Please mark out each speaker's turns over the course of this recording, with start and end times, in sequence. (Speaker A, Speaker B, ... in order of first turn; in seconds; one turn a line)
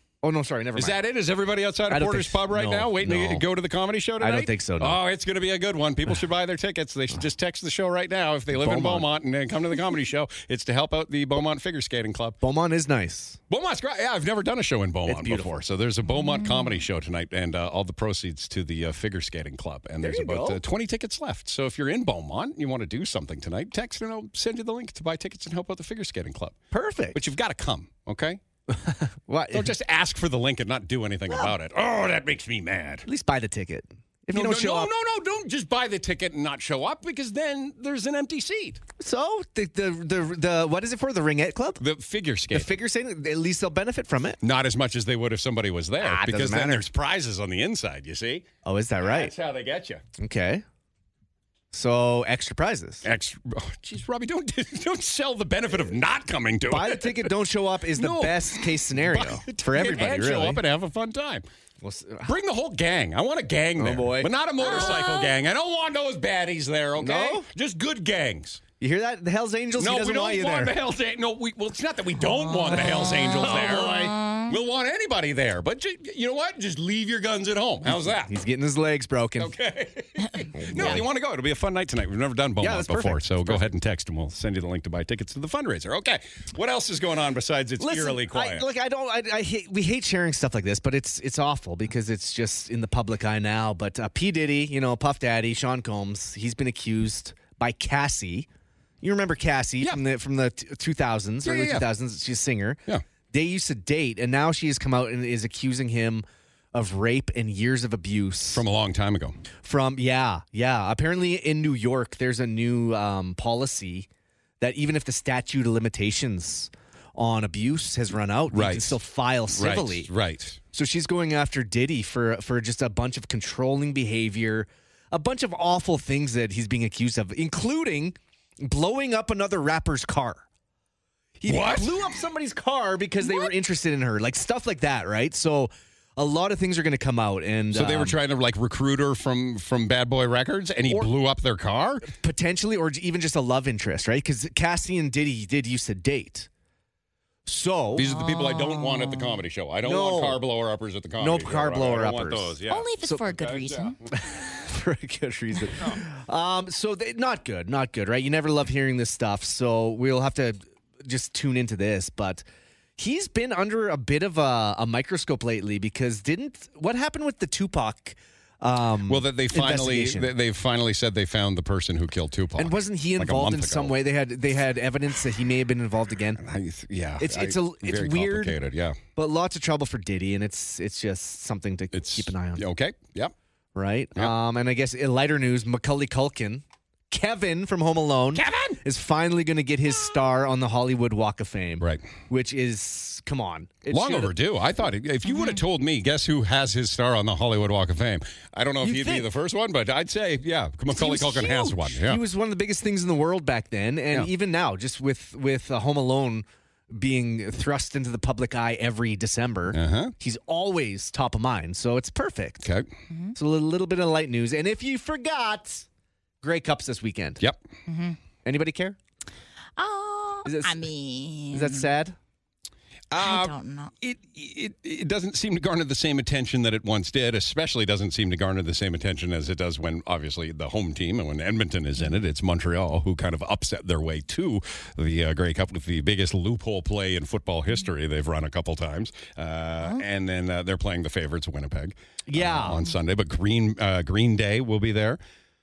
Speaker A: 0.2-1.0
Speaker B: 0.8-12.4
Speaker A: 1.9-3.5
Speaker A: 4.2-5.0
Speaker A: 8.5-9.1
Speaker A: 12.4-13.4
Speaker B: 13.5-26.6
Speaker A: 15.1-15.5
Speaker C: 16.1-16.8
Speaker A: 20.0-20.6
Speaker A: 26.7-27.2
Speaker B: 27.1-28.4
Speaker A: 28.7-29.7
Speaker B: 29.5-33.0
Speaker A: 33.0-34.9
Speaker B: 34.3-38.8
Speaker A: 39.0-41.8
Speaker B: 41.8-42.7
Speaker A: 42.5-44.4
Speaker B: 44.4-48.5
Speaker A: 46.0-46.9
Speaker A: 48.6-49.3
Speaker B: 49.0-50.0
Speaker A: 50.2-50.6
Speaker A: 51.7-53.0
Speaker B: 53.0-57.3
Speaker A: 56.7-60.6
Speaker B: 57.9-61.4
Speaker A: 61.8-62.3
Speaker B: 62.2-68.6
Speaker A: 63.8-65.1
Speaker C: 64.6-65.3
Speaker A: 67.0-67.5
Speaker A: 68.8-70.8
Speaker B: 69.8-78.3
Speaker C: 72.2-74.5
Speaker A: 73.3-74.0
Speaker A: 77.8-79.5
Speaker B: 79.4-88.7
Speaker A: 80.6-81.1
Speaker A: 82.6-83.7
Speaker A: 87.8-98.5
Speaker A: 99.0-102.8
Speaker B: 101.4-101.9
Speaker A: 103.3-108.6
Speaker B: 108.5-109.4
Speaker A: 109.6-114.1
Speaker A: 114.6-120.1
Speaker B: 118.5-119.0
Speaker B: 119.5-120.6
Speaker A: 120.7-130.4
Speaker A: 131.4-138.2
Speaker B: 131.4-131.9
Speaker B: 137.7-142.1
Speaker A: 142.1-146.5
Speaker A: 147.4-148.1
Speaker B: 147.9-153.9
Speaker C: 148.0-149.4
Speaker A: 149.8-150.4
Speaker A: 151.2-153.3
Speaker C: 152.7-154.0
Speaker A: 154.1-162.4
Speaker A: 163.0-170.3
Speaker B: 169.1-174.0
Speaker A: 172.6-176.4
Speaker B: 176.4-179.0
Speaker A: 177.2-178.6
Speaker A: 179.2-182.6
Speaker B: 181.9-183.3
Speaker A: 183.7-194.3
Speaker B: 188.3-188.8
Speaker B: 191.8-192.1
Speaker B: 193.9-202.2
Speaker C: 195.3-195.6
Speaker A: 198.8-199.3
Speaker A: 200.9-212.7
Speaker B: 209.7-210.1
Speaker C: 213.1-213.3
Speaker A: 213.3-215.9
Speaker A: 216.4-217.4
Speaker C: 217.9-218.2
Speaker A: 218.4-219.0
Speaker C: 219.8-221.9
Speaker A: 220.4-220.8
Speaker A: 221.5-222.2
Speaker B: 223.1-245.2
Speaker C: 223.2-223.9
Speaker A: 242.3-242.8